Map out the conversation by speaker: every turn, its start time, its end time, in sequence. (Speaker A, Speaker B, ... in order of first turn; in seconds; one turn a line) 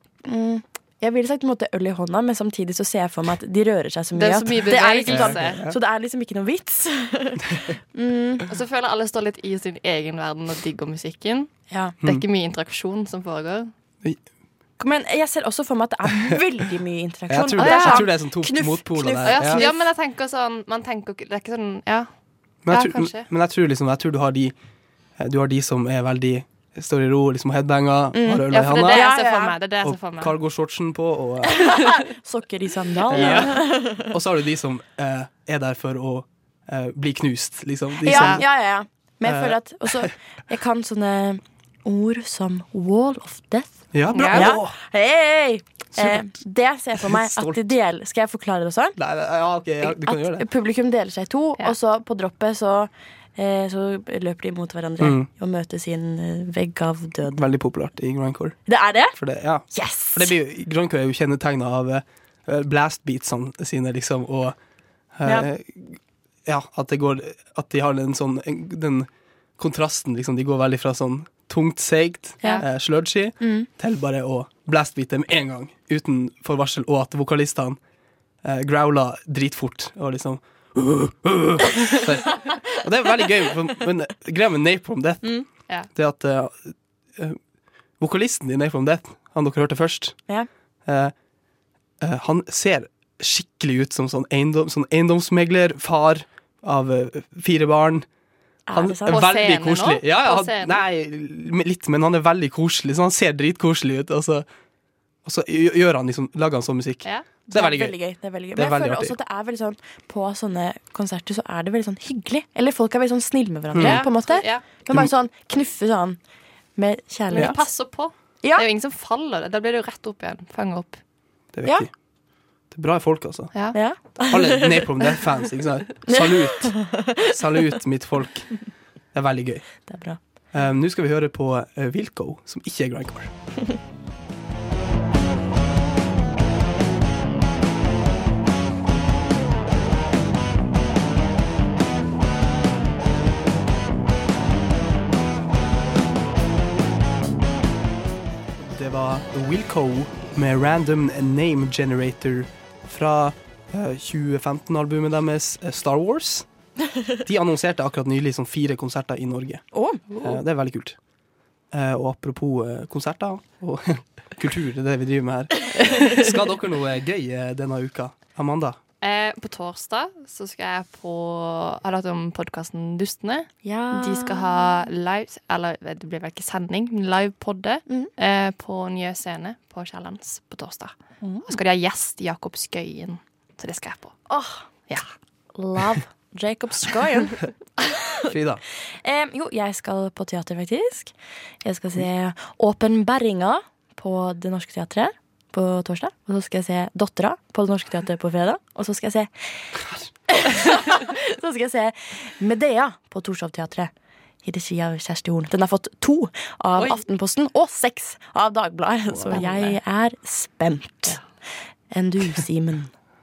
Speaker A: 0.2-8.4
Speaker B: 4.1-5.6
Speaker C: 5.1-5.8
Speaker B: 8.5-13.7
Speaker A: 11.7-12.0
Speaker C: 12.0-12.3
Speaker A: 14.8-19.9
Speaker C: 17.3-19.6
Speaker B: 17.6-18.1
Speaker B: 19.2-23.3
Speaker C: 22.6-29.1
Speaker A: 28.1-29.6
Speaker B: 28.5-30.4
Speaker C: 29.8-31.8
Speaker A: 31.8-34.1
Speaker B: 33.1-33.6
Speaker C: 33.1-38.6
Speaker A: 38.0-49.0
Speaker B: 38.1-38.4
Speaker C: 39.2-40.1
Speaker C: 43.9-44.8
Speaker B: 44.1-44.5
Speaker C: 45.9-47.7
Speaker C: 49.0-50.5
Speaker A: 49.8-57.5
Speaker C: 55.0-55.3
Speaker C: 57.3-77.8
Speaker A: 58.6-60.3
Speaker A: 72.4-72.7
Speaker A: 73.4-73.7
Speaker C: 78.4-91.3
Speaker C: 92.0-98.1
Speaker A: 98.7-99.2
Speaker C: 98.7-104.5
Speaker B: 99.1-100.8
Speaker C: 105.2-109.2
Speaker A: 107.5-118.7
Speaker C: 113.7-114.2
Speaker B: 113.8-114.6
Speaker C: 114.9-115.1
Speaker B: 117.3-121.0
Speaker C: 121.5-133.6
Speaker A: 123.7-125.0
Speaker A: 126.1-127.1
Speaker A: 129.9-130.2
Speaker C: 148.6-156.7
Speaker C: 157.2-168.8
Speaker A: 159.7-160.0
Speaker B: 160.1-160.4
Speaker B: 169.0-185.1
Speaker A: 173.6-174.8
Speaker A: 177.9-178.1
Speaker A: 181.2-181.5
Speaker A: 184.3-184.9
Speaker A: 185.5-187.6
Speaker C: 188.3-188.6
Speaker A: 189.0-212.9
Speaker B: 209.3-209.8